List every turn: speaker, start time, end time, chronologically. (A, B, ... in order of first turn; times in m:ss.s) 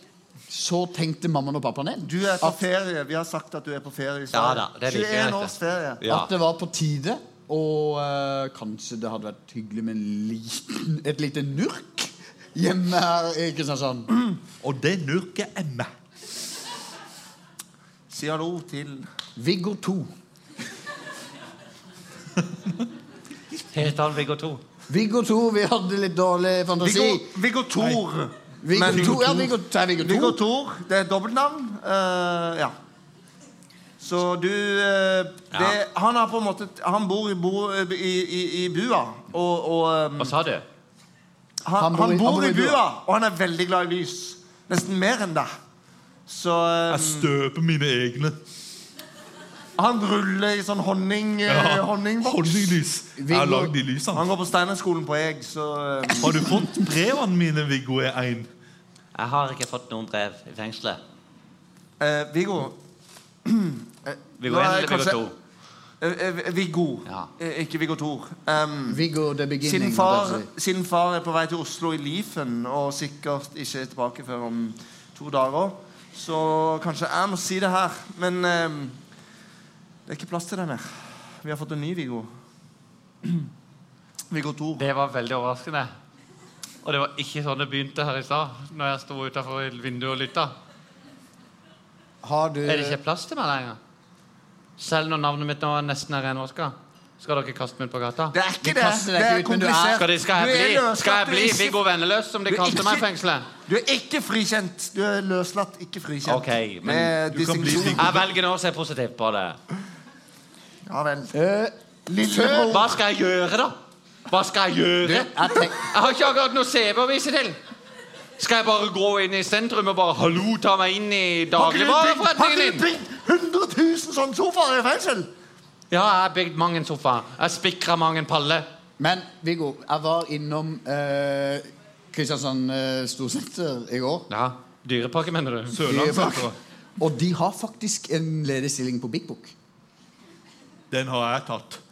0:00.5-0:02.6 A
0:02.0-0:06.0 B
0:04.3-0:06.3 C
0:06.1-0:14.1 A
0:14.1-0:14.4 B
0:14.6-0:15.9 D
0:18.1-0:19.1 B
0:19.4-0:20.1 A
0:23.7-0:24.6 C
0:24.9-0:27.3 A
0:26.8-0:32.7 B
0:28.6-0:30.4 A
0:28.9-0:29.4 D
0:34.0-0:40.3 B
0:40.2-0:40.6 C
0:41.6-0:45.5 B
0:41.8-0:42.8 A
0:46.3-0:47.3 B
0:46.9-0:48.4 D
0:49.8-0:52.8 B
0:51.5-0:54.3 D
0:53.2-0:53.7 A
0:54.1-0:56.6 B
0:56.2-0:58.5 D
0:59.1-1:01.0 C
1:02.0-1:02.8 B
1:03.4-1:05.2 B
1:04.4-1:05.3 C
1:06.0-1:09.0 B
1:08.9-1:10.5 A
1:09.6-1:19.0 B
1:20.1-1:22.3 B
1:24.3-1:24.9 B
1:24.8-1:25.9 C
1:26.8-1:30.6 C
1:32.2-1:33.0 A
1:32.6-1:33.8 C
1:34.8-1:38.4 C
1:38.3-1:41.8 B
1:38.6-1:40.0 A
1:40.0-1:43.5 C
1:42.5-1:43.1 B
1:43.7-1:48.3 B
1:46.2-1:47.1 C
1:47.3-1:48.2 D
1:47.9-1:49.6 C
1:50.9-1:51.3 B
1:51.3-1:52.7 A
1:52.1-1:53.0 B
1:52.7-1:53.8 C
1:54.3-1:57.6 C
1:55.0-1:55.8 A
1:58.4-2:02.8 C
2:01.5-2:05.3 B
2:05.9-2:08.7 C
2:09.0-2:14.3 A
2:14.3-2:15.8 C
2:15.7-2:16.6 D
2:15.9-2:19.5 A
2:20.9-2:21.8 D